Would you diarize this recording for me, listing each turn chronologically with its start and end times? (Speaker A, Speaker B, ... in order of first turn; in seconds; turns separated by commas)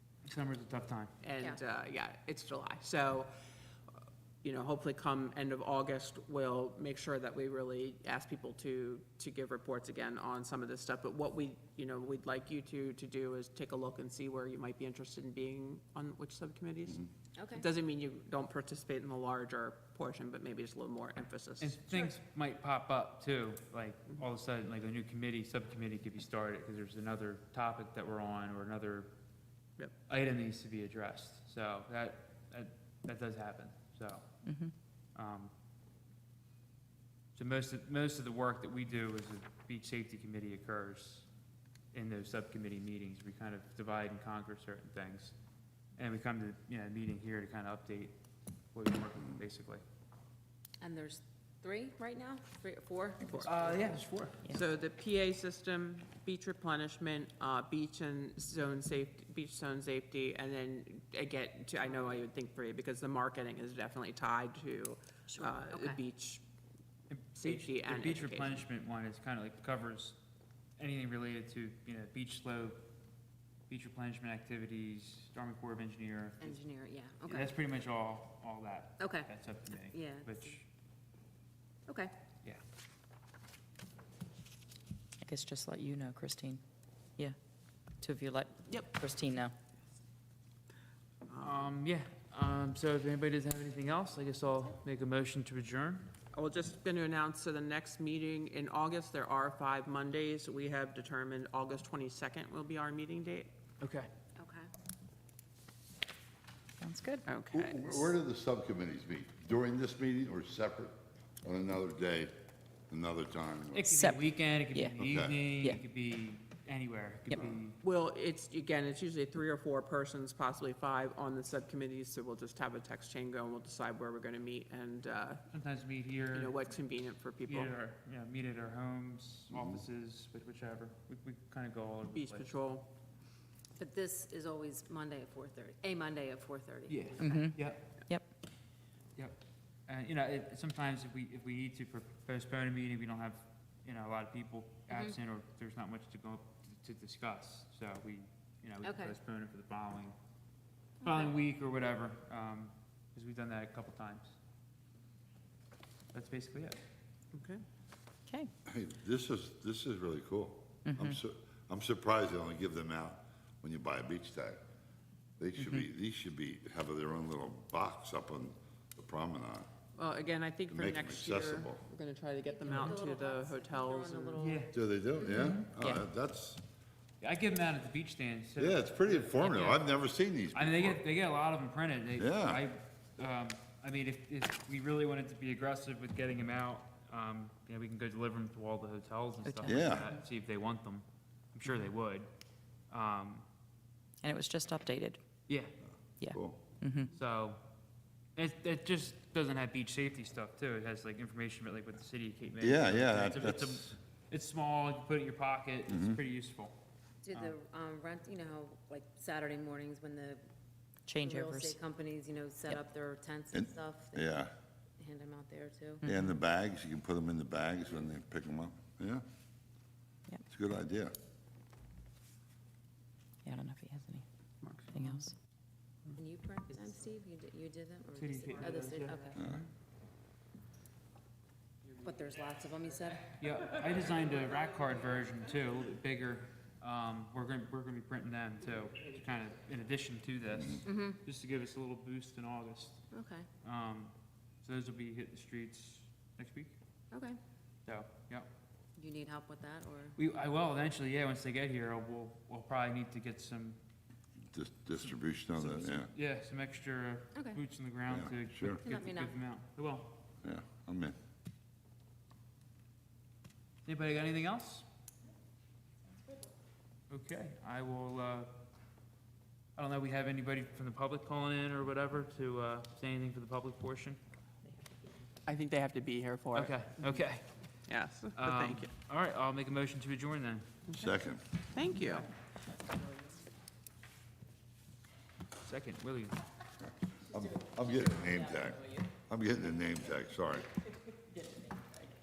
Speaker A: 0.3-1.1, Speaker B: 1.2-3.3, Speaker B: 4.4-21.8, Speaker C: 17.4-17.7, Speaker A: 21.6-29.1, Speaker A: 30.1-34.4, Speaker D: 34.5-34.7, Speaker A: 35.1-35.5, Speaker A: 37.4-41.3, Speaker A: 41.9-45.4, Speaker A: 46.0-48.2, Speaker A: 48.7-49.8, Speaker C: 50.8-53.8, Speaker B: 53.2-66.4, Speaker A: 53.4-54.4, Speaker C: 65.4-66.0, Speaker A: 67.1-70.2, Speaker B: 67.4-68.7, Speaker A: 70.8-72.8, Speaker A: 73.7-76.5, Speaker C: 76.4-77.5, Speaker A: 77.3-80.7, Speaker C: 79.0-79.3, Speaker C: 79.8-80.5, Speaker C: 81.9-82.2, Speaker D: 85.2-86.6, Speaker D: 88.0-89.5, Speaker B: 91.3-91.7, Speaker A: 91.4-96.1, Speaker B: 96.3-103.5, Speaker A: 103.8-104.1, Speaker C: 104.4-104.7, Speaker D: 106.8-107.3, Speaker B: 107.3-108.1, Speaker E: 107.5-112.3, Speaker E: 112.9-113.9, Speaker A: 113.7-117.8, Speaker D: 113.8-115.8, Speaker E: 115.0-115.4, Speaker B: 117.8-125.4, Speaker A: 125.5-126.6, Speaker B: 126.3-127.7, Speaker A: 127.5-132.6, Speaker E: 129.5-129.8, Speaker B: 132.1-132.9, Speaker C: 133.8-137.5, Speaker A: 136.9-137.9, Speaker D: 137.2-138.3, Speaker A: 139.2-150.2, Speaker C: 144.9-145.2, Speaker C: 148.8-149.2, Speaker C: 151.0-151.3, Speaker A: 151.0-154.4, Speaker A: 156.1-156.8, Speaker B: 157.3-157.6, Speaker E: 158.7-164.6, Speaker D: 160.9-161.2, Speaker E: 165.4-169.7, Speaker B: 170.0-174.5, Speaker E: 170.7-171.8, Speaker C: 172.4-175.5, Speaker A: 172.7-173.0, Speaker A: 174.4-174.7, Speaker E: 174.7-176.6, Speaker D: 175.4-176.0, Speaker A: 177.2-192.3, Speaker E: 178.6-181.0, Speaker E: 182.2-182.6, Speaker D: 189.4-190.1, Speaker E: 189.7-190.1, Speaker A: 192.9-193.4, Speaker D: 194.2-195.2, Speaker A: 195.5-195.7, Speaker D: 196.2-197.1, Speaker E: 196.3-196.6, Speaker A: 197.1-197.6, Speaker A: 198.4-206.8, Speaker E: 202.6-203.8, Speaker E: 205.9-206.2, Speaker C: 207.3-210.4, Speaker D: 211.1-211.8, Speaker C: 211.2-214.3, Speaker E: 213.5-214.5, Speaker C: 215.0-216.0, Speaker D: 216.0-216.3, Speaker E: 216.1-219.2, Speaker E: 220.5-221.1, Speaker D: 223.4-224.2, Speaker B: 224.6-224.9, Speaker D: 224.9-225.3, Speaker C: 226.1-229.4, Speaker A: 228.2-229.7, Speaker E: 229.3-229.6, Speaker C: 232.0-233.3, Speaker A: 233.3-243.1, Speaker C: 240.8-241.2, Speaker C: 243.1-243.5, Speaker A: 243.6-246.8, Speaker C: 247.1-247.4, Speaker A: 247.9-248.5, Speaker C: 249.0-250.2, Speaker A: 250.2-253.8, Speaker E: 254.5-256.1, Speaker A: 255.0-260.1, Speaker E: 258.1-258.8, Speaker C: 258.8-259.3, Speaker E: 260.4-261.2, Speaker A: 263.9-264.9, Speaker A: 267.1-268.5, Speaker A: 269.8-274.2, Speaker B: 275.4-277.2, Speaker A: 276.6-277.5, Speaker B: 277.9-278.9, Speaker A: 278.4-280.7, Speaker B: 280.9-281.2, Speaker E: 281.0-281.4, Speaker B: 281.7-282.3, Speaker A: 285.6-286.4, Speaker E: 287.3-290.7